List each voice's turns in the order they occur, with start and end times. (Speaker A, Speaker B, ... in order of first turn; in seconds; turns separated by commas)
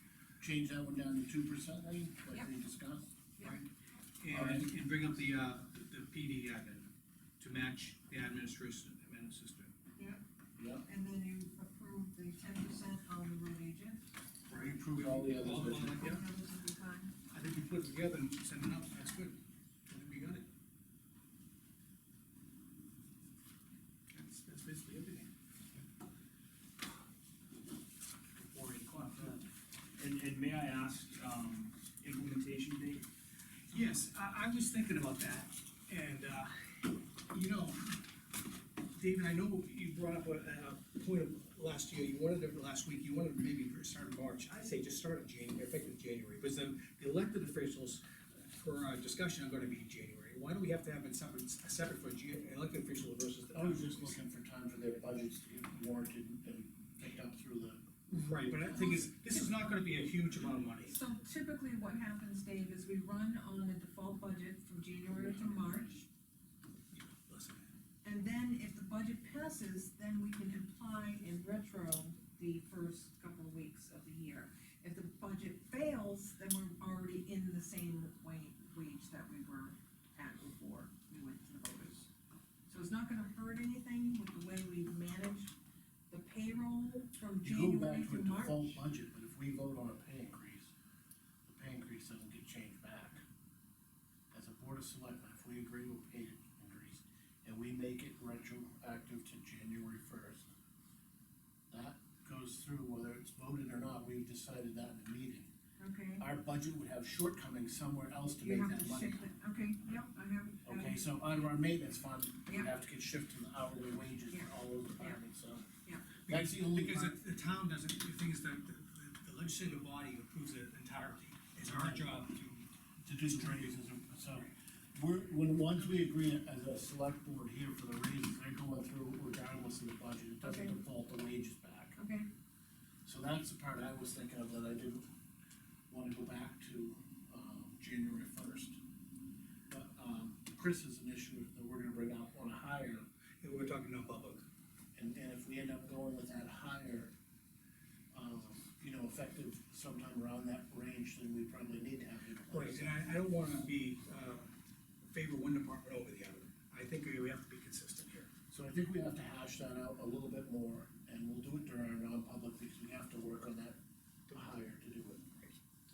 Speaker A: 0.4-3.1, Speaker B: 4.2-6.9, Speaker A: 4.3-4.7, Speaker B: 7.4-9.7, Speaker A: 10.6-10.8, Speaker C: 10.8-14.0, Speaker B: 14.5-16.2, Speaker A: 14.5-16.1, Speaker C: 15.7-17.1, Speaker B: 17.3-20.4, Speaker B: 24.1-25.3, Speaker D: 28.4-33.0, Speaker B: 33.7-38.0, Speaker B: 38.9-54.2, Speaker A: 53.5-57.8, Speaker B: 58.1-60.9, Speaker C: 58.7-59.7, Speaker C: 60.8-66.0, Speaker A: 65.1-65.9, Speaker B: 66.9-67.7, Speaker C: 68.0-82.1, Speaker C: 82.7-85.5, Speaker C: 86.1-88.8, Speaker A: 87.4-90.7, Speaker A: 91.4-93.2, Speaker A: 94.3-100.5, Speaker A: 101.7-105.5, Speaker C: 105.8-106.2, Speaker A: 106.2-109.3, Speaker C: 108.4-111.0, Speaker A: 110.6-115.7, Speaker C: 112.5-112.7, Speaker C: 114.3-115.2, Speaker B: 116.2-122.7, Speaker A: 116.3-117.2, Speaker A: 121.6-122.0, Speaker A: 123.0-132.0, Speaker B: 123.2-123.7, Speaker C: 130.4-130.8, Speaker C: 132.0-132.3, Speaker A: 133.0-135.1, Speaker A: 135.9-138.8, Speaker A: 139.7-143.1, Speaker B: 143.4-144.4, Speaker A: 144.9-147.1, Speaker A: 148.1-153.1, Speaker B: 152.5-154.5, Speaker B: 155.1-158.3, Speaker A: 158.5-163.8, Speaker A: 164.3-165.5